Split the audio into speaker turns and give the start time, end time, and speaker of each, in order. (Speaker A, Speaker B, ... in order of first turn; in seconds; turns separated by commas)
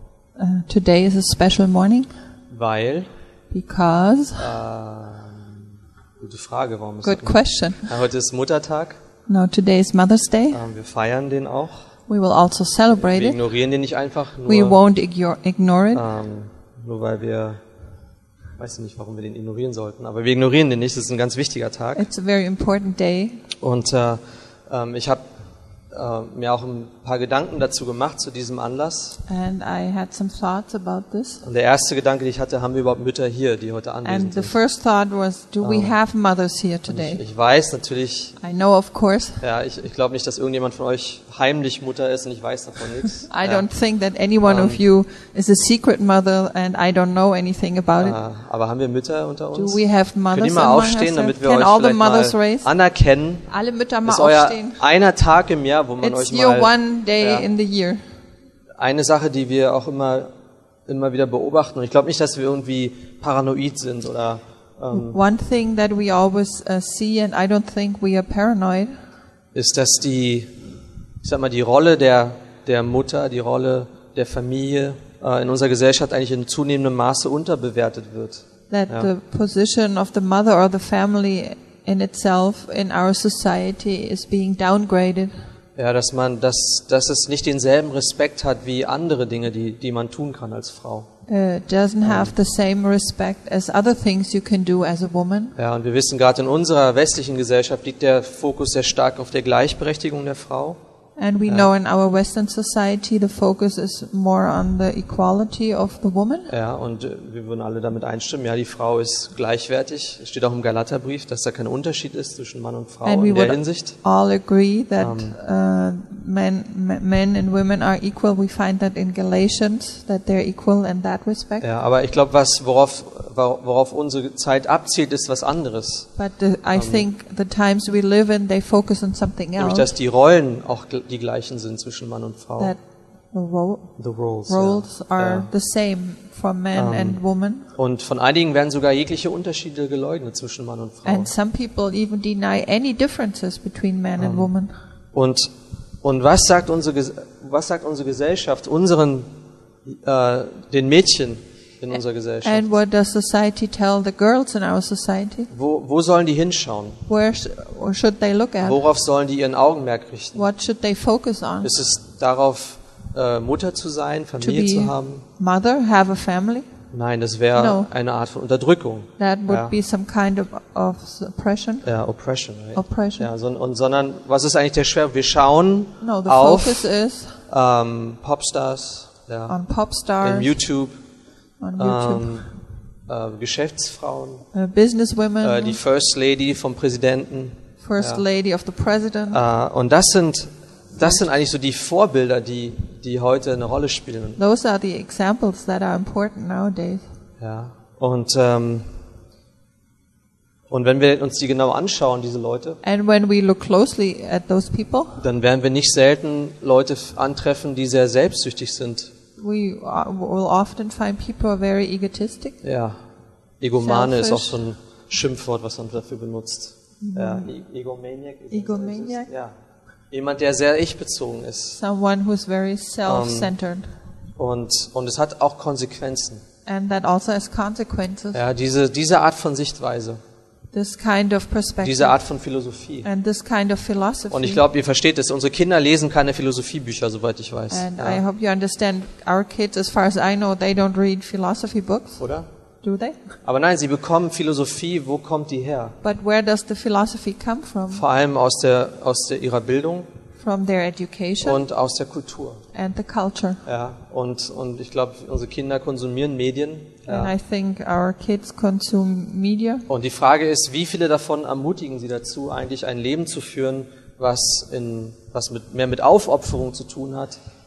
Speaker A: 0.3-2.1, Speaker B: 2.5-3.1, Speaker A: 3.5-4.5, Speaker B: 4.4-5.6, Speaker B: 6.2-9.0, Speaker A: 7.0-7.9, Speaker A: 9.3-10.6, Speaker B: 10.5-11.9, Speaker A: 12.1-13.4, Speaker B: 12.9-14.8, Speaker A: 14.4-16.0, Speaker B: 15.9-17.6, Speaker B: 18.6-22.1, Speaker A: 21.9-23.4, Speaker B: 23.6-25.2, Speaker B: 25.9-29.2, Speaker A: 29.3-31.4, Speaker B: 31.4-34.5, Speaker A: 34.0-37.2, Speaker B: 35.6-36.0, Speaker B: 36.9-38.4, Speaker A: 38.4-39.4, Speaker B: 39.4-43.7, Speaker A: 43.2-48.2, Speaker B: 44.4-44.8, Speaker B: 48.0-53.5, Speaker A: 49.5-52.7, Speaker A: 53.5-54.8, Speaker B: 54.0-57.5, Speaker A: 56.0-58.0, Speaker B: 58.8-60.3, Speaker B: 60.9-65.2, Speaker A: 64.9-68.9, Speaker B: 69.5-70.5, Speaker B: 71.2-79.1, Speaker A: 78.7-85.3, Speaker B: 85.8-91.1, Speaker A: 91.3-95.5, Speaker B: 92.0-92.3, Speaker B: 95.5-100.8, Speaker A: 101.2-106.5, Speaker B: 106.5-114.0, Speaker A: 113.0-121.7, Speaker B: 115.0-115.4, Speaker B: 121.6-126.1, Speaker A: 126.2-129.9, Speaker B: 126.7-127.0, Speaker B: 129.6-132.7, Speaker A: 133.3-137.7, Speaker B: 134.0-135.5, Speaker B: 136.7-137.2, Speaker B: 137.7-141.3, Speaker A: 141.0-144.8, Speaker B: 144.2-144.5, Speaker B: 145.1-145.5, Speaker B: 146.0-149.3, Speaker B: 149.8-152.7, Speaker A: 152.4-155.5, Speaker B: 155.5-157.0, Speaker A: 157.1-158.8, Speaker B: 158.6-160.4, Speaker A: 160.3-161.7, Speaker B: 161.6-165.2, Speaker A: 164.4-166.7, Speaker B: 166.9-169.7, Speaker A: 167.5-167.9, Speaker A: 169.2-171.9, Speaker B: 171.8-176.9, Speaker A: 172.7-173.3, Speaker A: 176.0-177.4, Speaker B: 177.5-179.6, Speaker A: 179.5-180.6, Speaker B: 180.2-181.0, Speaker A: 181.6-182.5, Speaker B: 181.8-182.5, Speaker B: 183.1-184.5, Speaker A: 184.5-185.8, Speaker B: 185.4-188.2, Speaker A: 187.8-189.4, Speaker B: 189.3-194.4, Speaker A: 194.4-197.0, Speaker B: 197.4-198.9, Speaker B: 200.7-202.8, Speaker A: 202.8-205.2, Speaker B: 205.2-209.1, Speaker A: 209.4-212.6, Speaker B: 212.6-213.0, Speaker B: 213.6-219.5, Speaker A: 213.8-214.6, Speaker A: 217.0-217.5, Speaker A: 218.5-219.3, Speaker B: 220.1-221.8, Speaker A: 221.8-223.9, Speaker B: 223.0-223.5, Speaker B: 224.3-226.4, Speaker A: 226.7-228.4, Speaker B: 228.3-230.2, Speaker A: 230.7-232.2, Speaker B: 231.8-233.1, Speaker A: 233.0-234.6, Speaker B: 234.3-238.2, Speaker A: 237.7-242.2, Speaker B: 242.2-242.5, Speaker A: 242.8-243.3, Speaker B: 243.4-246.0, Speaker A: 246.0-248.0, Speaker B: 247.9-250.1, Speaker A: 250.4-251.6, Speaker B: 251.4-252.6, Speaker A: 252.7-253.6, Speaker B: 253.6-257.3, Speaker A: 257.1-259.9, Speaker B: 259.9-267.4